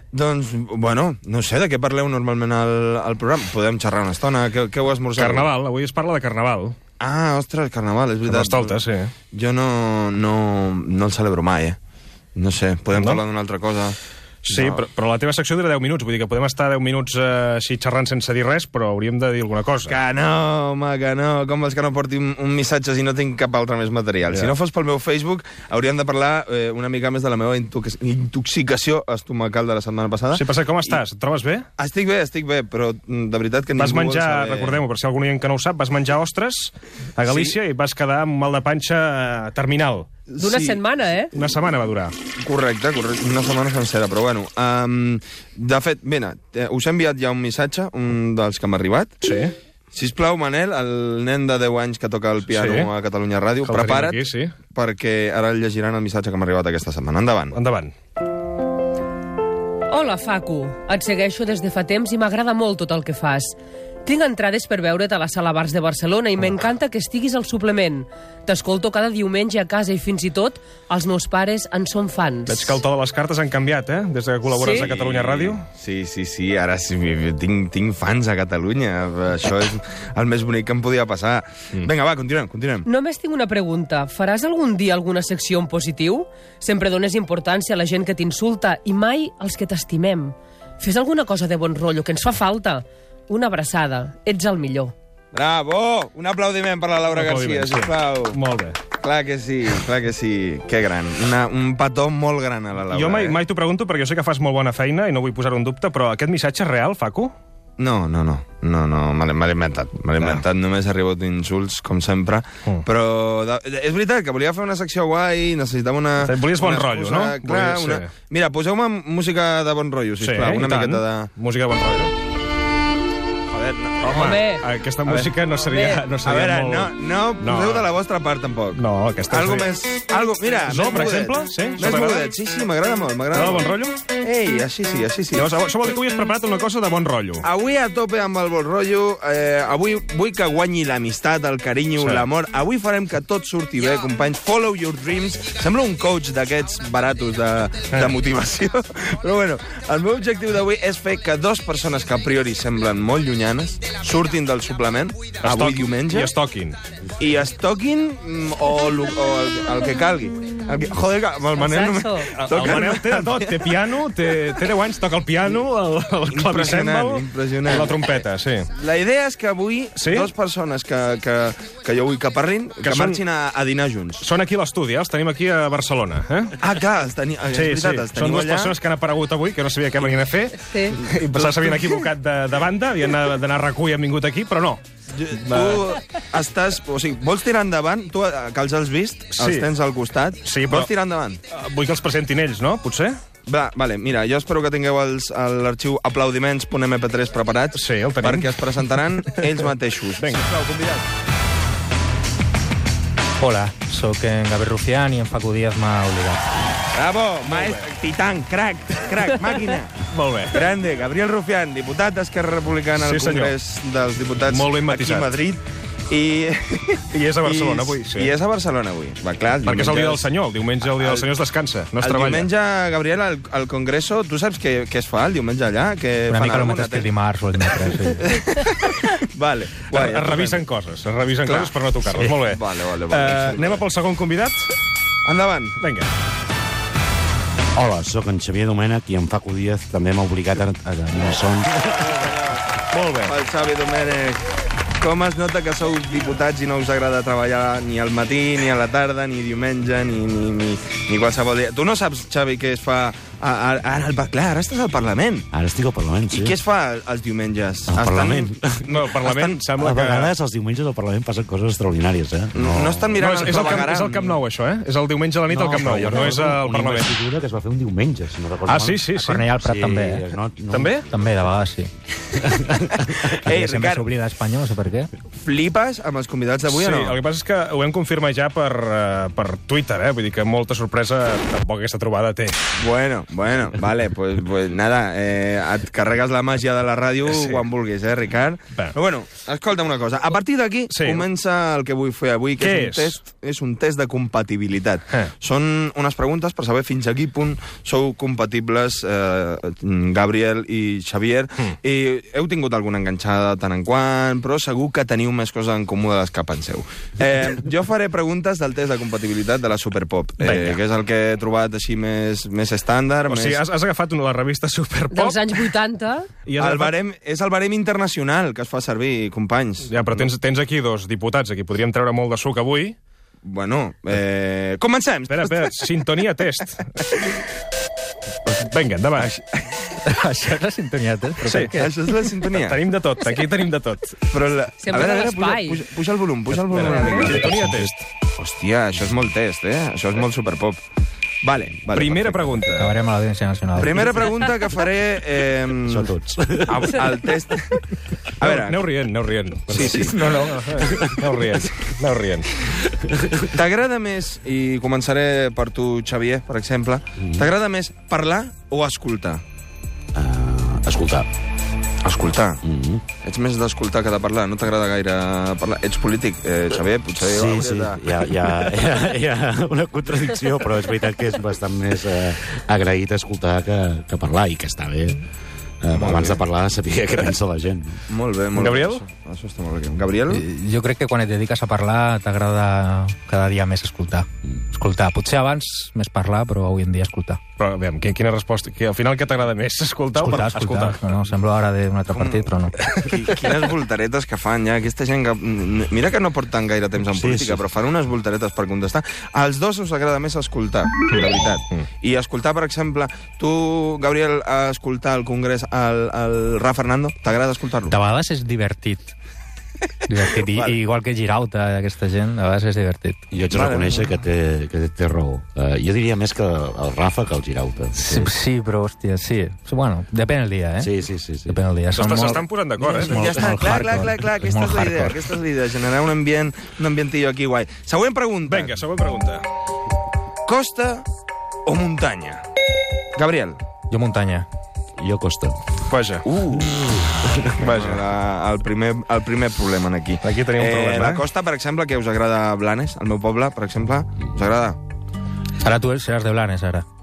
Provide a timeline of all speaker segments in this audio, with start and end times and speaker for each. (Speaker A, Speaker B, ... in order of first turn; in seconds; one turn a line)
Speaker A: 0.1-5.5
Speaker B: 5.2-6.8
Speaker A: 7.0-8.8
Speaker B: 8.2-9.1
Speaker A: 9.3-11.8
Speaker A: 12.3-14.0
Speaker B: 12.9-13.2
Speaker B: 14.4-20.0
Speaker A: 14.5-14.9
Speaker A: 19.9-31.0
Speaker B: 24.3-24.5
Speaker B: 30.3-31.7
Speaker A: 31.8-34.8
Speaker B: 33.8-40.1
Speaker A: 37.3-37.6
Speaker A: 40.3-40.8
Speaker C: 40.4-41.3
Speaker B: 41.3-42.1
Speaker A: 42.4-49.1
Speaker B: 49.2-49.5
Speaker A: 49.9-57.6
Speaker B: 52.5-52.9
Speaker B: 53.6-54.5
Speaker B: 57.5-57.9
Speaker C: 59.9-72.8
Speaker B: 72.5-75.7
Speaker C: 74.5-74.9
Speaker A: 74.8-82.9
Speaker C: 82.8-95.0
Speaker A: 95.3-98.4
Speaker B: 97.1-98.8
Speaker A: 98.9-103.4
Speaker B: 102.9-107.3
Speaker A: 107.8-121.3
Speaker B: 110.2-110.5
Speaker B: 116.2-118.1
Speaker B: 120.2-122.1
Speaker A: 121.8-122.1
Speaker A: 123.5-124.3
Speaker B: 124.0-127.9
Speaker C: 124.1-124.7
Speaker A: 125.0-125.3
Speaker C: 125.6-126.1
Speaker A: 126.2-135.5
Speaker B: 128.7-129.7
Speaker B: 130.7-132.3
Speaker B: 133.3-134.0
Speaker B: 135.3-137.5
Speaker A: 137.4-156.3
Speaker B: 142.0-142.3
Speaker B: 155.4-156.8
Speaker A: 157.2-163.4
Speaker C: 161.5-162.4
Speaker B: 162.3-168.7
Speaker A: 166.3-168.1
Speaker A: 168.8-174.2
Speaker B: 170.0-170.3
Speaker B: 172.8-173.2
Speaker B: 174.2-176.6
Speaker A: 176.6-178.8
Speaker B: 177.5-184.8
Speaker C: 180.6-181.0
Speaker A: 181.0-182.1
Speaker A: 185.1-191.4
Speaker B: 185.4-185.8
Speaker B: 189.3-189.7
Speaker B: 190.4-190.9
Speaker B: 191.5-193.2
Speaker A: 193.5-201.1
Speaker B: 197.7-198.7
Speaker B: 200.2-200.5
Speaker D: 203.4-206.5
Speaker A: 206.9-210.0
Speaker B: 207.4-207.9
Speaker B: 210.1-210.6
Speaker A: 210.5-220.3
Speaker B: 212.9-213.6
Speaker B: 214.5-215.3
Speaker B: 217.1-218.4
Speaker B: 219.6-222.5
Speaker A: 221.0-221.3
Speaker A: 222.0-227.1
Speaker D: 226.3-228.3
Speaker A: 227.8-230.6
Speaker B: 229.9-234.7
Speaker A: 231.4-233.8
Speaker A: 235.2-235.8
Speaker B: 235.8-236.1
Speaker E: 237.8-242.1
Speaker A: 242.1-242.5
Speaker B: 242.9-243.3
Speaker A: 243.2-244.4
Speaker A: 245.0-255.5
Speaker E: 255.5-256.6
Speaker A: 256.3-258.5
Speaker E: 257.9-259.0
Speaker B: 258.9-260.3
Speaker A: 259.2-259.6
Speaker E: 259.8-263.2
Speaker A: 262.5-264.4
Speaker B: 263.2-267.2
Speaker E: 265.5-271.5
Speaker B: 268.7-269.5
Speaker D: 269.1-270.2
Speaker B: 270.7-271.1
Speaker D: 271.1-271.9
Speaker E: 272.4-273.3
Speaker A: 273.1-274.1
Speaker D: 273.5-275.1
Speaker A: 275.3-277.2
Speaker B: 276.7-282.6
Speaker A: 282.8-313.6
Speaker B: 287.2-287.6
Speaker B: 290.9-291.3
Speaker B: 292.6-293.2
Speaker B: 310.4-310.8
Speaker B: 313.3-315.7
Speaker C: 315.1-316.3
Speaker B: 316.5-316.9
Speaker A: 316.6-320.3
Speaker B: 319.9-323.0
Speaker A: 323.4-325.8
Speaker B: 325.3-327.1
Speaker B: 328.5-329.3
Speaker A: 329.2-329.6
Speaker D: 330.0-332.0
Speaker B: 331.4-331.7
Speaker A: 331.7-332.8
Speaker B: 332.5-334.2
Speaker A: 334.3-337.5
Speaker C: 334.8-335.8
Speaker B: 336.7-338.1
Speaker A: 338.4-340.8
Speaker A: 341.4-342.9
Speaker B: 341.9-342.9
Speaker D: 342.8-344.2
Speaker A: 343.8-346.1
Speaker E: 345.9-347.0
Speaker A: 346.7-347.8
Speaker A: 348.4-348.8
Speaker B: 348.4-352.5
Speaker A: 349.7-350.2
Speaker E: 349.7-350.1
Speaker D: 350.0-351.0
Speaker A: 353.5-359.4
Speaker E: 357.2-357.5
Speaker E: 360.1-361.3
Speaker A: 362.0-362.6
Speaker E: 362.6-363.0
Speaker A: 363.2-368.0
Speaker E: 367.2-375.2
Speaker E: 375.8-378.0
Speaker A: 375.9-376.4
Speaker A: 378.1-380.4
Speaker B: 378.5-379.0
Speaker D: 380.3-387.4
Speaker B: 387.6-391.0
Speaker D: 390.1-392.8
Speaker A: 392.1-407.9
Speaker E: 397.1-397.6
Speaker D: 407.9-409.1
Speaker D: 410.1-413.2
Speaker E: 413.3-418.3
Speaker A: 413.5-414.1
Speaker D: 417.9-420.9
Speaker E: 420.8-421.6
Speaker D: 421.5-425.2
Speaker B: 421.9-423.2
Speaker A: 422.8-428.8
Speaker B: 428.5-429.4
Speaker A: 430.5-431.1
Speaker A: 431.7-432.4
Speaker A: 433.1-433.6
Speaker D: 433.9-434.5
Speaker E: 435.0-435.6
Speaker B: 435.9-436.3
Speaker A: 436.2-444.8
Speaker E: 436.8-437.3
Speaker B: 437.6-438.1
Speaker B: 440.2-441.3
Speaker D: 445.6-446.9